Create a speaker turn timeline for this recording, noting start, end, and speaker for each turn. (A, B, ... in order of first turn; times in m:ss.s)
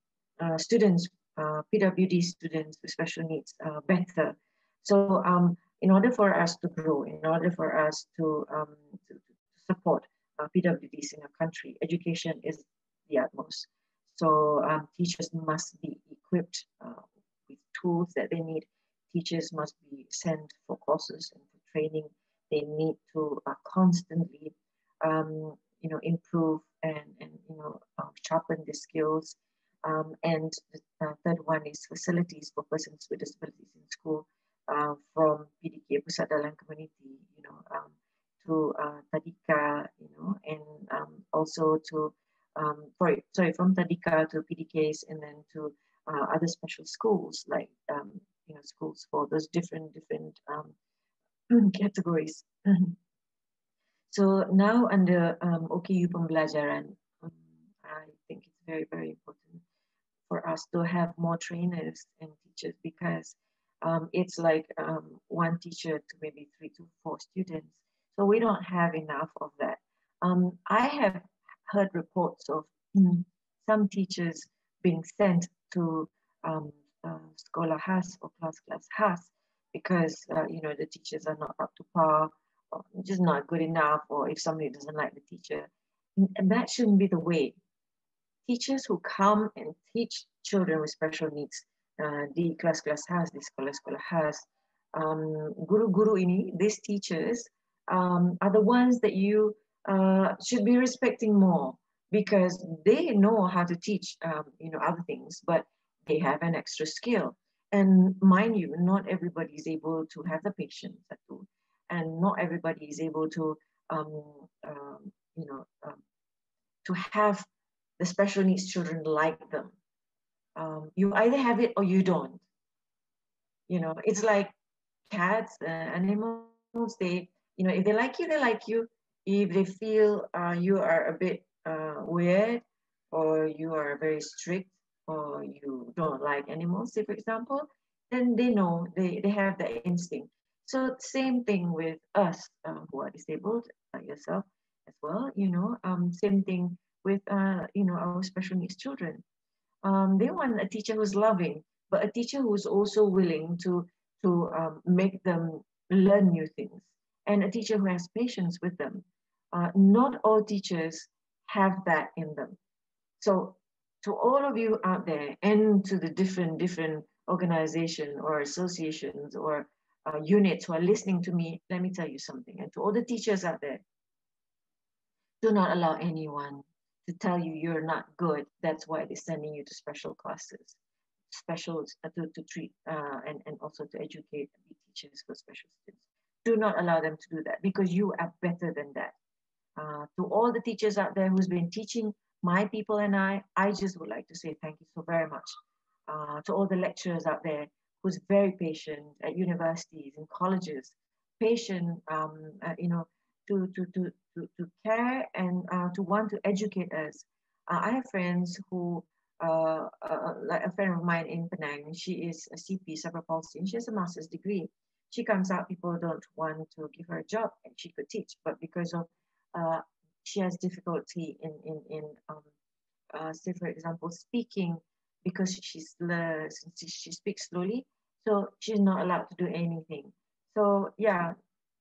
0:00.4-0:50.8 A
0:51.5-0:53.0 A
0:54.1-0:59.6 A
1:00.3-1:27.6 A
1:28.5-1:56.0 A
1:56.8-1:57.5 A
1:58.0-1:59.7 A
2:00.6-2:02.4 A
2:03.7-2:04.5 A
2:05.1-2:29.2 A
2:29.8-2:42.6 A
2:43.2-2:53.8 A
2:55.4-3:00.8 A
3:01.3-3:09.2 A
3:09.8-3:15.6 A
3:16.1-3:42.5 A
3:43.1-3:51.4 A